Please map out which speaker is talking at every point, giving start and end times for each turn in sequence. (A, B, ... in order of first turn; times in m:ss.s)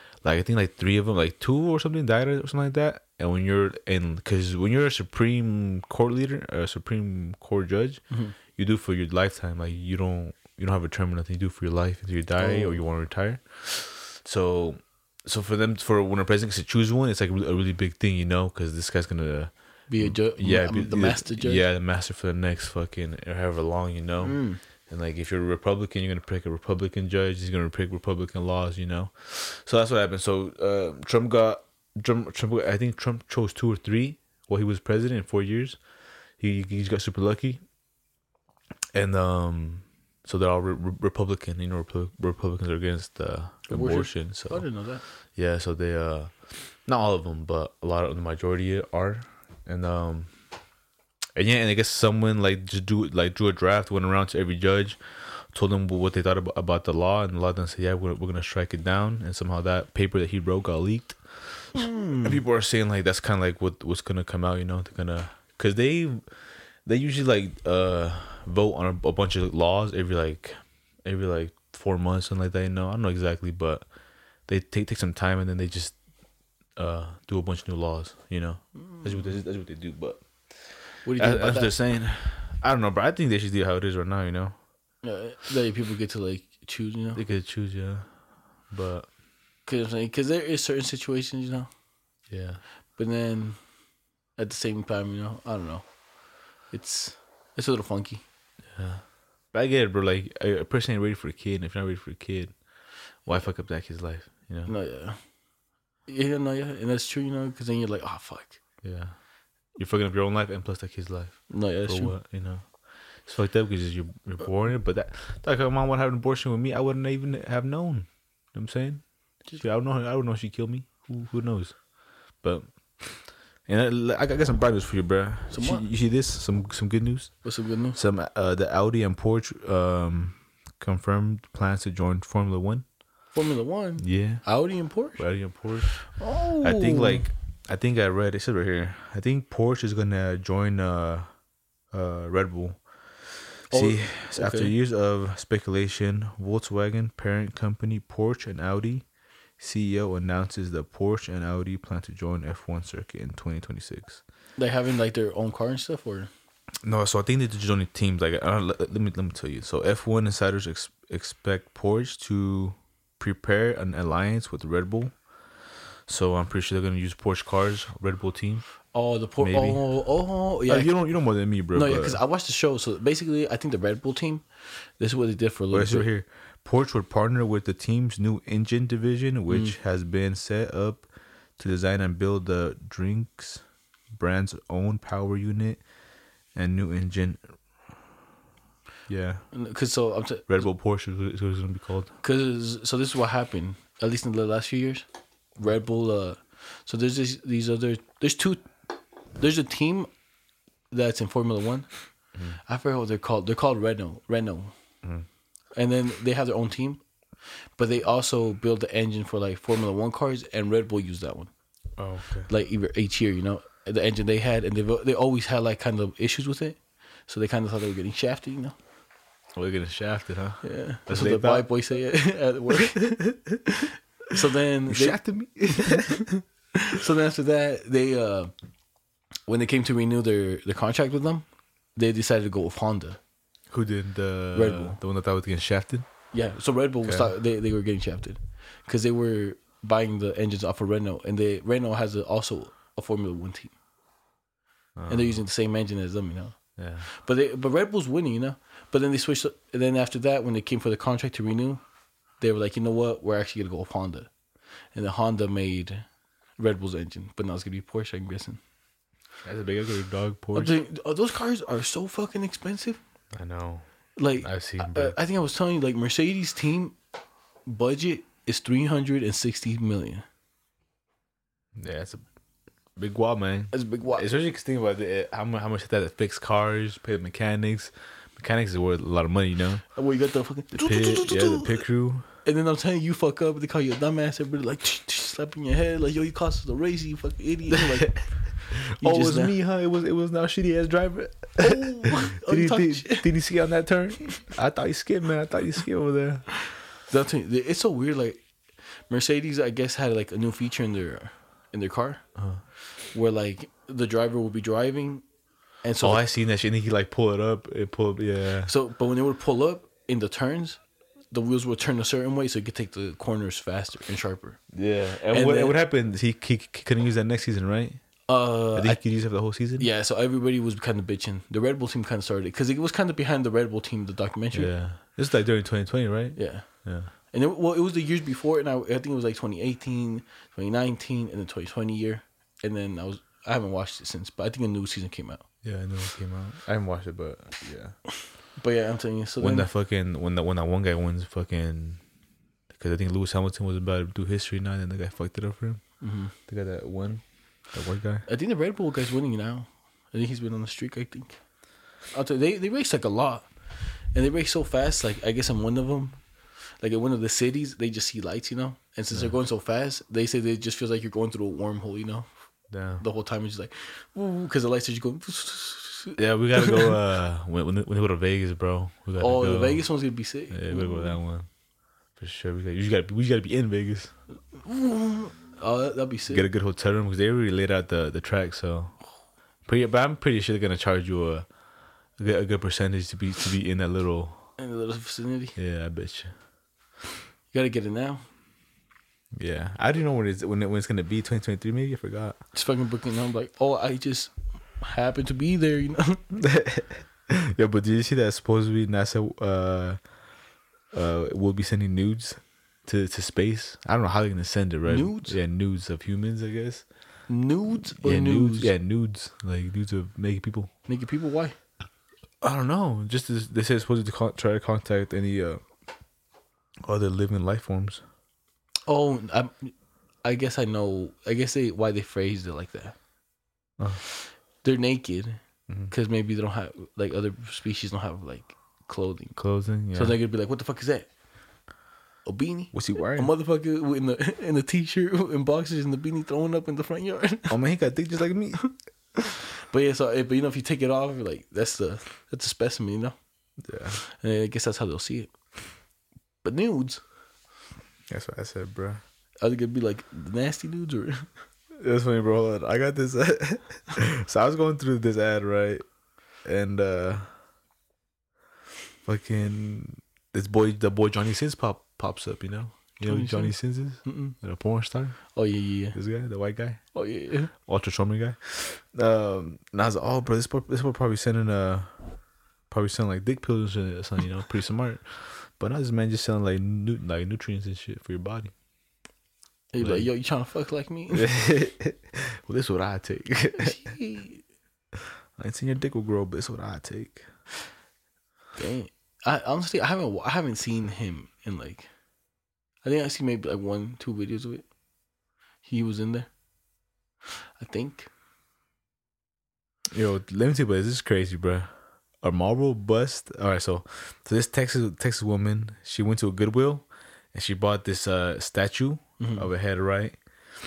0:00.2-0:35.8 A
0:08.1-0:08.4 B
0:12.4-0:12.8 B
0:19.9-0:21.6 B
0:24.2-0:24.6 B
0:36.4-0:37.6 A
0:38.9-0:44.7 A
0:43.7-0:45.0 B
0:45.4-0:50.3 A
0:51.4-1:06.2 A
1:01.8-1:02.4 B
1:06.8-1:13.9 A
1:14.5-1:16.0 A
1:16.8-1:24.6 A
1:18.8-1:19.2 B
1:21.0-1:21.7 B
1:25.0-1:27.2 B
1:27.2-1:28.1 A
1:28.7-1:29.1 A
1:29.7-1:31.7 B
1:32.3-1:32.6 A
1:33.0-1:33.6 B
1:34.4-1:35.9 B
1:36.7-1:38.2 B
1:38.7-1:42.6 A
1:43.2-1:44.7 A
1:44.7-1:45.2 B
1:46.1-1:48.6 B
1:48.8-1:49.2 A
1:49.8-2:01.8 A
1:51.5-1:52.2 B
2:02.4-2:12.8 A
2:05.5-2:05.8 B
2:07.4-2:08.0 B
2:13.3-2:15.3 B
2:14.0-2:14.5 A
2:15.1-2:21.3 A
2:15.9-2:17.3 B
2:21.9-2:29.1 A
2:23.7-2:24.7 B
2:29.6-2:34.2 A
2:34.6-2:36.3 B
2:36.8-2:45.2 A
2:46.1-2:48.7 A
2:48.9-2:50.9 B
2:49.4-2:50.0 A
2:50.7-2:52.2 A
2:51.7-2:56.1 B
2:55.7-3:05.8 A
2:59.5-2:59.8 B
3:06.5-3:07.5 A
3:09.1-3:09.5 A
3:09.5-3:10.6 B
3:10.5-3:12.1 A
3:12.2-3:15.0 B
3:15.6-3:18.7 B
3:19.4-3:20.1 B
3:20.9-3:21.9 B
3:22.6-3:24.7 B
3:25.8-3:27.0 B
3:27.8-3:31.5 B
3:32.0-3:32.5 A
3:32.5-3:38.8 B
3:39.6-3:41.7 A
3:40.6-3:45.2 B
3:44.9-3:46.3 A
3:45.8-3:48.5 B
3:49.5-3:53.2 B
3:53.7-3:56.1 A
3:54.5-3:55.0 B
3:56.3-4:03.7 B
3:57.0-3:57.3 A
4:05.0-4:05.4 A
4:05.1-4:11.8 B
4:06.8-4:07.1 A
4:12.4-4:14.3 B
4:14.9-4:16.1 B
4:16.6-4:18.6 B
4:19.4-4:20.7 A
4:20.5-4:23.0 B
4:23.3-4:23.9 A
4:24.2-4:27.0 B
4:24.4-4:25.2 A
4:27.7-4:30.2 B
4:31.8-4:32.2 A
4:33.0-4:39.9 A
4:33.7-4:34.2 B
4:40.0-4:41.8 B
4:40.7-4:42.3 A
4:42.4-4:49.5 B
4:47.7-4:56.6 A
4:51.6-4:53.3 B
4:57.1-4:58.4 B
4:59.1-5:02.3 B
5:02.4-5:02.6 A
5:03.1-5:05.2 B
5:05.8-5:06.2 B
5:06.0-5:08.7 A
5:08.7-5:10.8 B
5:11.3-5:14.6 B
5:14.7-5:18.0 A
5:15.3-5:15.8 B
5:18.3-5:19.0 B
5:18.7-5:19.9 A
5:19.8-5:24.7 B
5:24.5-5:27.1 A
5:26.4-5:35.5 B
5:35.6-5:38.0 A
5:38.6-5:39.7 B
5:39.4-5:42.0 A
5:42.7-5:45.8 A
5:46.0-5:46.3 B
5:46.5-5:48.3 A
5:48.3-5:51.4 B
5:52.1-5:53.5 B
5:54.1-5:56.2 B
5:56.8-6:02.3 B
6:02.7-6:03.0 A
6:03.0-6:07.0 B
6:06.2-6:09.9 A
6:09.2-6:11.2 B
6:10.5-6:11.5 A
6:12.2-6:14.1 A
6:14.5-6:16.5 B
6:16.3-6:19.0 A
6:19.7-6:21.5 A
6:22.2-6:24.4 A
6:24.6-6:25.6 B
6:25.6-6:26.3 A
6:27.5-6:28.3 B
6:29.3-6:32.4 A
6:32.5-6:36.2 B
6:36.3-6:40.0 A
6:40.9-6:46.9 A
6:44.9-6:45.4 B
6:47.3-6:48.7 B
6:48.0-6:50.7 A
6:50.9-6:51.6 B
6:52.4-6:55.6 A
6:56.8-6:58.0 A
6:58.9-7:03.0 B
7:04.6-7:09.4 B
7:09.4-7:10.2 A
7:09.9-7:11.1 B
7:12.2-7:17.6 B
7:12.7-7:13.3 A
7:17.5-7:18.6 A
7:18.6-7:23.2 B
7:23.6-7:24.0 A
7:24.0-7:25.3 B
7:26.4-7:27.0 B
7:28.1-7:29.0 A
7:29.4-7:31.3 B
7:31.8-7:35.8 A
7:36.4-7:37.3 A
7:39.1-7:45.2 A
7:43.1-7:44.4 B
7:45.3-7:46.0 B
7:45.9-7:46.8 A
7:46.9-7:47.5 B
7:47.5-7:51.9 A
7:52.7-7:58.5 A
7:59.7-8:01.3 B
7:59.8-8:00.1 A
8:01.1-8:03.9 A
8:03.6-8:04.4 B
8:05.4-8:07.3 A
8:08.6-8:11.9 B
8:12.8-8:14.7 B
8:15.6-8:16.3 B
8:17.6-8:18.1 B
8:19.9-8:21.7 A
8:22.2-8:30.2 A
8:29.2-8:29.5 B